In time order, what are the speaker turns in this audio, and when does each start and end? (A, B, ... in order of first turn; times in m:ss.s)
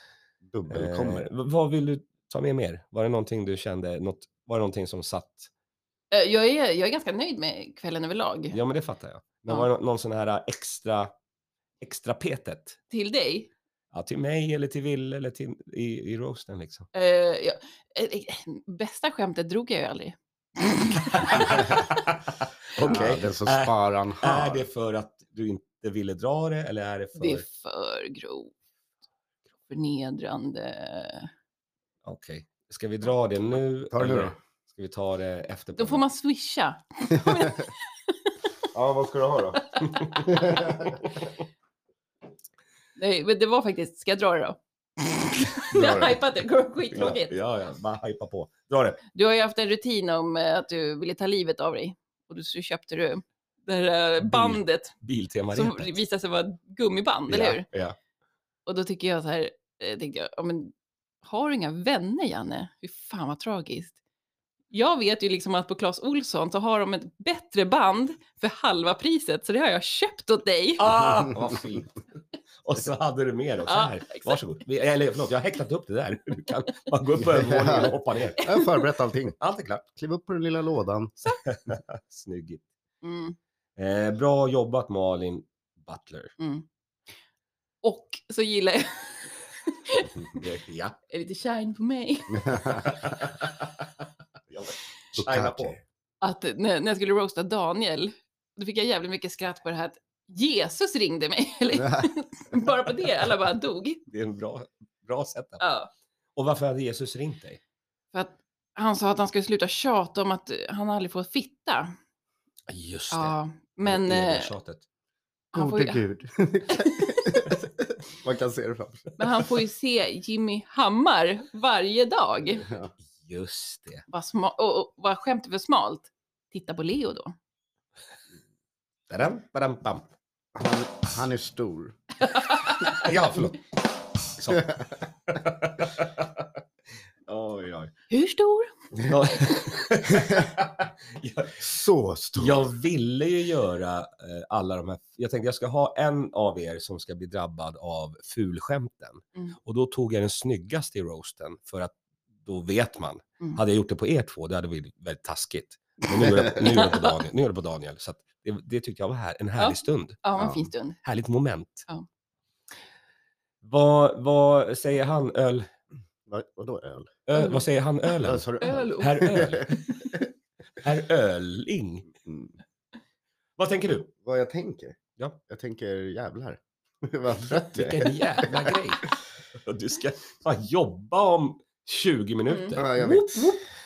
0:00.4-0:01.2 A
0:00.7-0:05.5 B
0:06.1-0:08.6 C
0:08.5-0:11.1 B
0:11.8-0:12.8 B
0:12.9-0:13.5 C
0:13.9-0:16.9 B
0:16.9-0:21.8 C
0:21.0-0:27.4 B
0:22.8-0:24.7 A
0:27.2-0:28.5 C
0:29.7-0:31.3 C
0:32.0-0:36.0 B
0:33.9-0:34.3 A
0:35.8-0:38.3 C
0:38.7-0:39.6 A
0:39.8-0:40.7 C
0:39.8-0:40.3 B
0:40.2-0:40.9 A
0:43.0-0:44.6 C
0:45.3-0:47.3 C
0:45.7-0:46.2 A
0:46.9-0:49.0 B
0:49.1-0:55.0 C
0:54.2-0:55.9 B
0:55.5-0:57.6 C
0:57.3-0:58.0 B
0:58.6-1:04.0 C
1:04.7-1:10.9 C
1:10.8-1:12.0 B
1:11.3-1:11.5 A
1:12.6-1:18.4 B
1:13.7-1:14.4 C
1:17.2-1:19.4 A
1:18.4-1:18.8 C
1:19.4-1:19.8 B
1:19.9-1:21.1 A
1:21.2-1:22.7 B
1:23.0-1:23.4 C
1:23.8-1:26.3 B
1:26.4-1:26.6 C
1:27.8-1:30.2 C
1:30.2-1:31.0 B
1:31.1-1:32.9 C
1:32.3-1:32.9 A
1:32.6-1:33.8 B
1:34.5-1:35.8 B
1:35.1-1:35.8 A
1:36.2-1:44.0 C
1:41.8-1:42.1 A
1:44.1-1:45.6 B
1:45.6-1:45.9 C
1:46.4-1:47.6 B
1:48.1-1:51.9 C
1:52.7-1:54.8 B
1:53.1-1:54.5 C
1:55.5-1:56.0 C
1:55.5-1:59.2 A
1:56.7-1:57.4 C
1:59.2-2:02.6 C
2:02.6-2:02.9 A
2:03.1-2:04.0 B
2:04.1-2:07.3 C
2:09.1-2:10.0 B
2:10.5-2:12.0 A
2:12.3-2:12.9 C
2:12.8-2:13.6 B
2:14.4-2:16.5 B
2:17.3-2:17.9 B
2:18.1-2:18.8 C
2:19.0-2:21.7 B
2:21.6-2:22.7 A
2:22.4-2:40.2 B
2:36.6-2:37.1 C
2:39.6-2:41.0 C
2:40.4-2:40.6 A
2:41.0-2:41.9 B
2:43.6-2:45.7 B
2:46.3-2:47.1 A
2:47.3-2:50.0 B
2:47.3-2:47.6 C
2:48.2-2:50.2 A
2:48.6-2:50.1 C
2:50.8-2:52.1 B
2:52.2-2:52.5 A
2:53.6-2:54.1 B
2:54.2-2:58.8 A
2:57.5-3:03.6 B
3:02.5-3:02.8 C
3:02.8-3:03.6 A